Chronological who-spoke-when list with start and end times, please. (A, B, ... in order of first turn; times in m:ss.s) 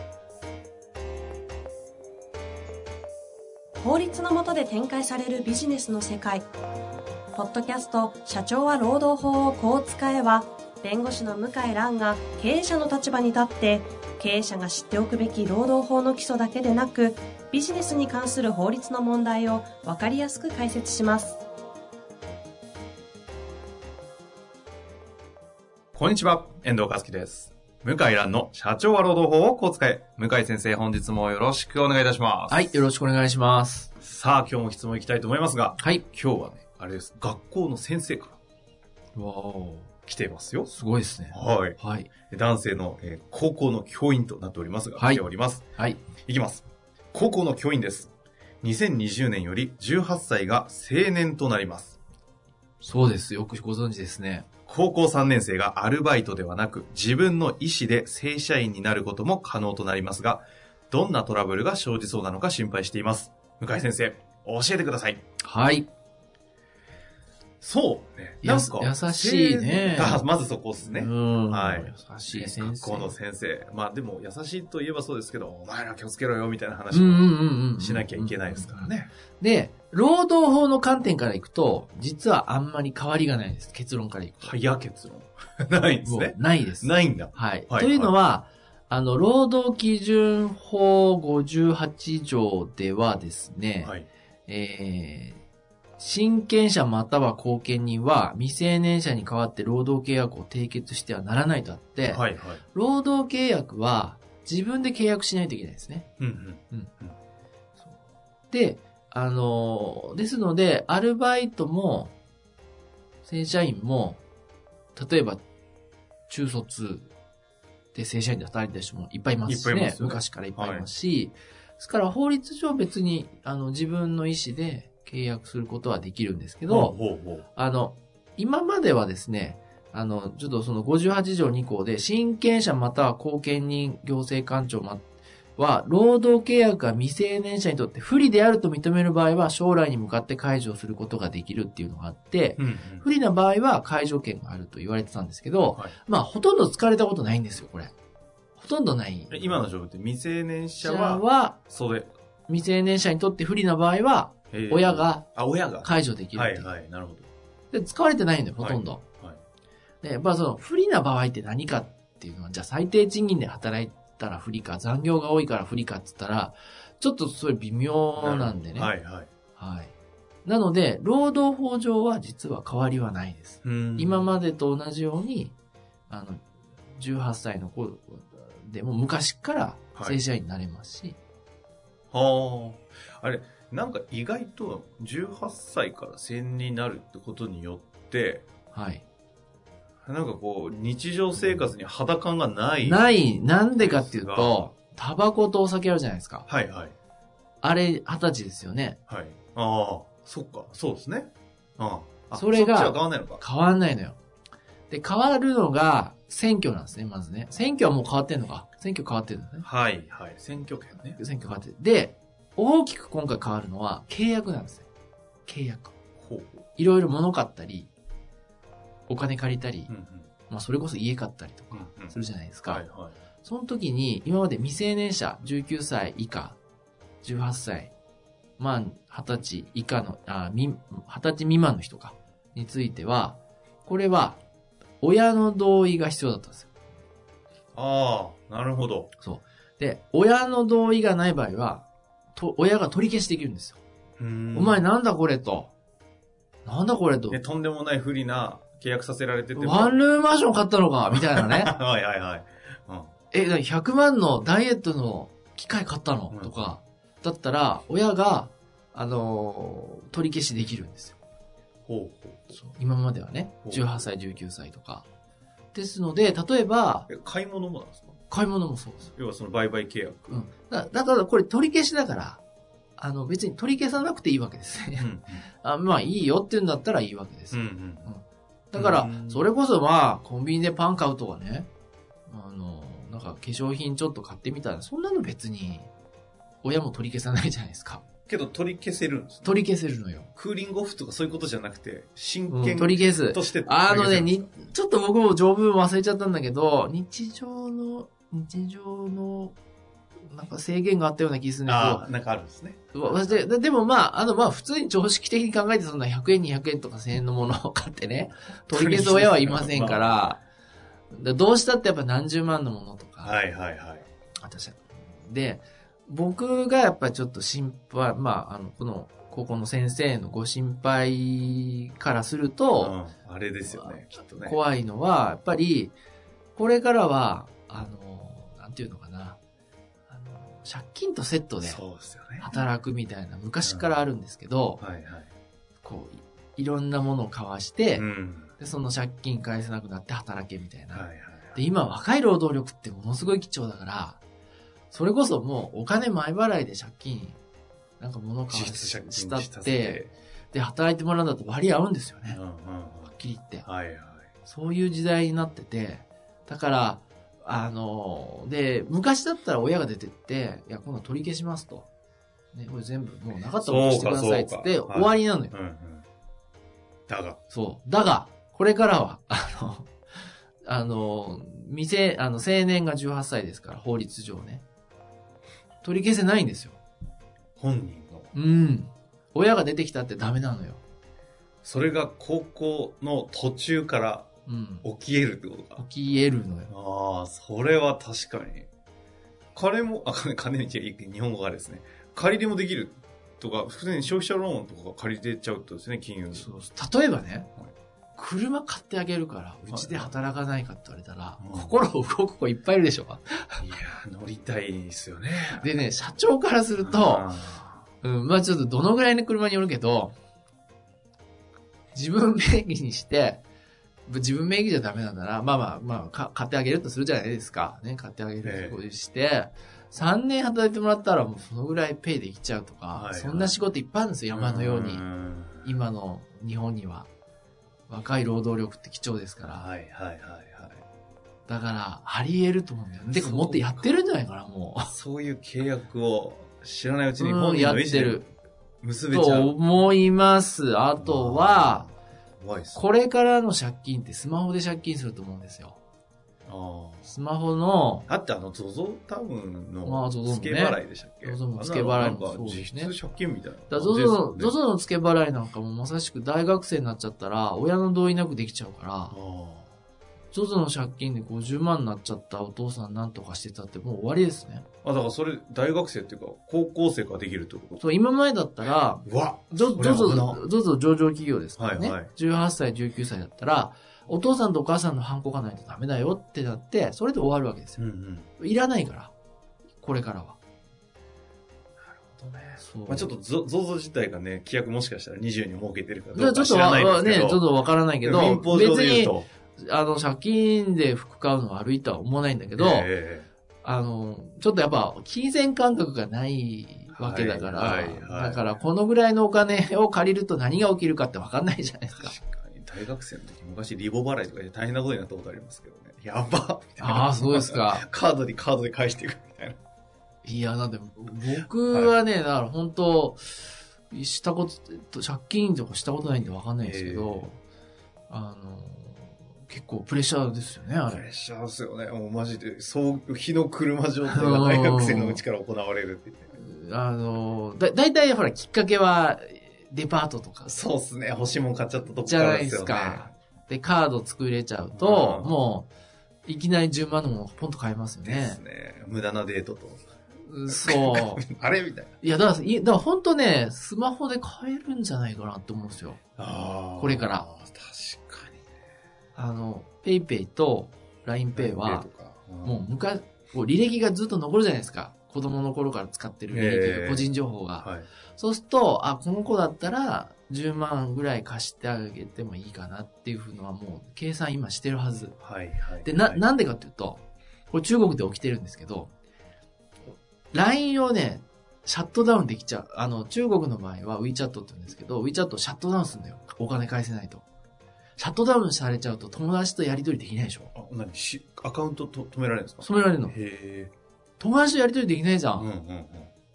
0:03.8-0:06.4 A
0:07.3-0:21.4 A
0:25.9-0:32.8 B
0:32.5-0:33.9 C
0:34.0-0:38.4 B
0:35.8-0:36.0 C
0:39.1-0:39.9 C
0:40.0-0:40.7 B
0:40.7-0:42.1 C
0:41.3-0:41.8 B
0:42.3-0:45.6 B
0:45.0-0:45.2 C
0:45.7-0:46.0 C
0:46.2-0:52.0 B
0:52.8-0:54.5 C
0:54.7-1:05.2 B
1:05.4-1:05.9 C
1:07.6-1:19.1 B
1:08.4-1:10.2 C
1:10.8-1:13.1 C
1:16.9-1:24.6 C
1:24.4-1:28.1 B
1:26.0-1:33.9 C
1:33.8-1:34.1 B
1:34.5-1:35.4 C
1:36.0-1:46.1 C
1:42.0-1:42.6 B
1:46.2-1:47.1 B
1:48.5-1:52.1 C
1:53.2-1:54.2 C
1:54.9-1:55.4 C
1:56.3-1:57.1 C
1:57.9-2:07.0 C
1:59.4-2:00.9 B
2:06.7-2:07.4 B
2:07.5-2:15.0 C
2:15.6-2:27.9 C
2:22.6-2:23.1 B
2:28.6-2:29.6 C
2:29.3-2:32.1 B
2:30.8-2:31.6 C
2:32.5-2:36.7 C
2:34.5-2:37.3 B
2:37.7-2:39.0 C
2:38.6-2:39.4 B
2:40.0-2:48.9 C
2:48.2-2:49.3 B
2:49.6-2:49.9 C
2:50.4-2:55.5 C
2:53.6-2:54.3 B
2:56.1-3:01.2 C
3:02.1-3:08.4 B
3:08.7-3:09.0 C
3:10.0-3:13.2 B
3:12.8-3:16.4 C
3:13.8-3:14.5 B
3:16.5-3:16.9 B
3:17.6-3:19.0 C
3:19.1-3:23.4 B
3:22.3-3:24.2 C
3:24.9-3:29.6 C
3:29.6-3:31.2 B
3:31.1-3:34.9 C
3:35.4-3:35.9 C
3:36.2-3:36.6 B
3:36.8-3:37.9 C
3:39.1-3:39.9 C
3:39.9-3:40.3 B
3:40.5-3:42.8 C
3:41.7-3:43.2 B
3:43.4-3:46.6 C
3:47.2-3:47.9 C
3:48.6-3:54.4 C
3:55.0-3:56.7 C
3:57.7-3:59.1 B
3:59.2-4:03.8 C
4:04.2-4:04.8 B
4:04.5-4:05.7 C
4:06.6-4:07.4 C
4:07.3-4:10.0 B
4:09.5-4:11.7 C
4:11.1-4:13.1 B
4:13.3-4:21.2 C
4:21.8-4:22.4 B
4:22.5-4:25.0 C
4:23.6-4:24.0 B
4:25.7-4:27.1 C
4:27.1-4:28.1 B
4:28.3-4:29.1 C
4:29.1-4:30.5 B
4:30.3-4:32.4 C
4:33.0-4:35.1 C
4:35.0-4:35.4 B
4:35.6-4:41.7 C
4:37.5-4:38.1 B
4:38.7-4:39.4 B
4:42.3-4:45.9 C
4:46.6-4:48.0 C
4:48.3-4:49.6 B
4:49.4-4:50.3 C
4:50.4-4:54.5 B
4:52.5-4:59.6 C
5:00.3-5:02.0 C
5:01.6-5:03.4 B
5:02.9-5:10.4 C
5:08.7-5:10.3 B
5:11.1-5:13.4 C
5:13.2-5:14.0 B
5:14.4-5:23.0 C
5:22.8-5:24.6 B
5:23.7-5:25.9 C
5:26.6-5:29.4 C
5:30.1-5:31.8 C
5:31.6-5:32.5 B
5:32.4-5:34.8 C
5:33.6-5:33.9 B
5:34.8-5:35.3 B
5:35.8-5:44.2 C
5:38.0-5:38.5 B
5:40.9-5:41.6 B
5:44.9-5:47.4 C
5:48.0-5:52.4 C
5:48.5-5:50.1 B
5:52.2-5:54.3 B
5:53.2-5:53.6 C
5:54.4-6:01.9 C
6:02.5-6:05.5 C
6:03.6-6:06.0 B
6:07.1-6:07.4 B
6:07.5-6:09.9 C
6:10.6-6:14.6 C
6:15.8-6:16.8 C
6:17.6-6:18.3 B
6:18.3-6:20.8 C
6:21.6-6:24.3 B
6:24.4-6:24.8 C
6:24.8-6:25.8 B
6:25.8-6:26.7 C
6:26.7-6:28.7 B
6:29.5-6:36.5 B
6:36.3-6:37.5 C
6:38.2-6:43.6 C
6:39.7-6:40.1 B
6:41.4-6:41.7 B
6:43.6-6:45.7 B
6:45.6-6:47.3 C
6:46.8-6:47.8 B
6:48.0-6:50.1 C
6:51.9-6:53.4 C
6:54.0-7:05.0 C
6:58.4-6:58.8 B
7:02.9-7:03.6 B
7:04.3-7:05.8 B
7:05.6-7:07.1 C
7:07.9-7:09.7 C
7:09.6-7:10.8 B
7:11.5-7:14.9 C
7:13.1-7:13.9 B
7:14.9-7:18.2 B
7:17.2-7:18.3 C
7:18.8-7:19.6 B
7:19.1-7:21.9 C
7:21.0-7:22.8 B
7:22.7-7:25.8 C
7:26.4-7:27.1 B
7:27.0-7:28.0 C
7:28.1-7:34.6 B
7:29.8-7:32.9 C
7:33.7-7:39.1 C
7:39.1-7:39.7 B
7:40.3-7:44.6 C
7:44.8-7:47.8 B
7:47.8-7:57.8 C
7:49.0-7:50.4 B
7:51.6-7:52.1 B
7:57.8-7:58.3 B
7:58.4-7:59.1 C
7:59.8-8:00.4 C
8:01.8-8:09.3 B
8:02.6-8:03.1 C
8:06.1-8:12.9 C
8:12.5-8:13.3 B
8:13.6-8:22.1 C
8:16.9-8:18.6 B
8:22.0-8:29.6 B
8:26.8-8:27.8 C
8:30.2-8:37.4 C
8:36.6-8:37.3 B
8:38.1-8:41.0 C
8:40.8-8:46.3 B
8:44.1-8:45.2 C
8:46.3-8:50.5 C
8:50.4-8:53.1 B
8:52.0-8:55.7 C
8:54.8-8:55.4 B
8:56.2-8:58.4 C
8:58.0-8:59.8 B
9:00.2-9:01.2 C
9:00.5-9:01.9 B
9:02.0-9:06.0 C
9:06.2-9:08.4 B
9:06.8-9:07.3 C
9:09.1-9:11.9 C
9:11.3-9:12.6 B
9:12.4-9:25.2 C
9:16.3-9:17.9 B
9:25.2-9:26.2 B
9:25.8-9:28.9 C
9:30.3-9:37.2 C
9:38.0-9:40.5 C
9:40.5-9:43.7 B
9:42.6-9:43.1 C
9:44.2-9:45.5 C
9:45.3-9:46.1 B